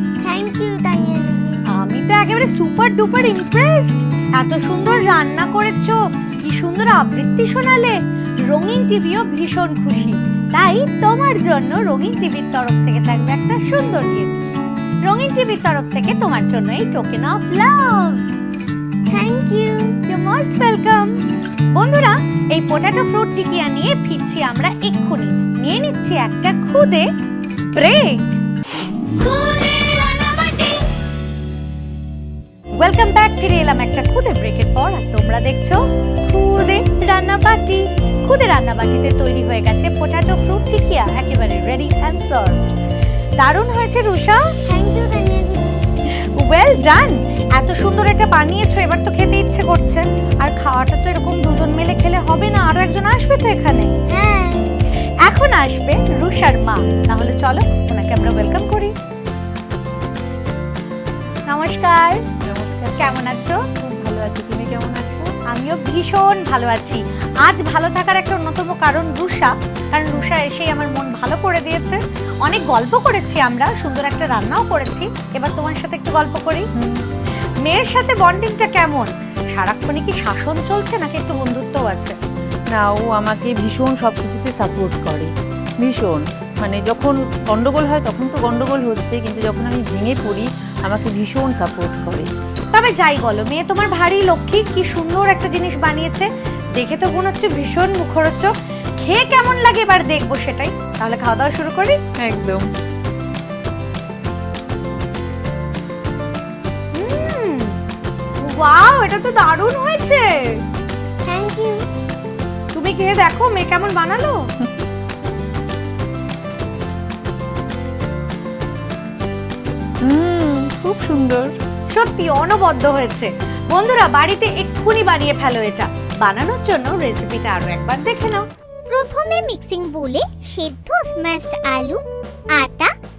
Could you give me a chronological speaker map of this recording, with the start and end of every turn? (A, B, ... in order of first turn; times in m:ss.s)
0:00.2-0:01.6 A
0:01.7-0:08.0 B
0:08.5-0:18.2 B
0:19.1-0:19.9 A
0:20.1-0:21.2 B
0:21.7-0:27.1 B
0:27.8-0:28.4 B
0:29.2-0:30.8 C
0:32.8-0:42.7 B
0:43.4-0:44.4 B
0:44.7-0:45.8 A
0:46.2-0:54.0 B
0:54.1-0:54.6 A
0:55.2-0:58.9 B
1:01.5-1:02.2 B
1:02.5-1:03.2 D
1:03.0-1:03.6 B
1:03.8-1:05.3 D
1:05.5-1:16.6 B
1:16.8-1:17.0 D
1:17.6-1:22.1 B
1:22.7-1:32.3 D
1:32.7-1:42.0 B
1:42.2-1:42.6 D
1:46.9-1:47.8 B
1:48.4-1:50.2 B
1:51.2-1:51.8 A
1:52.7-1:54.4 B
2:00.0-2:01.6 D
2:01.9-2:08.4 B
2:08.9-2:12.0 C
2:12.5-2:12.9 C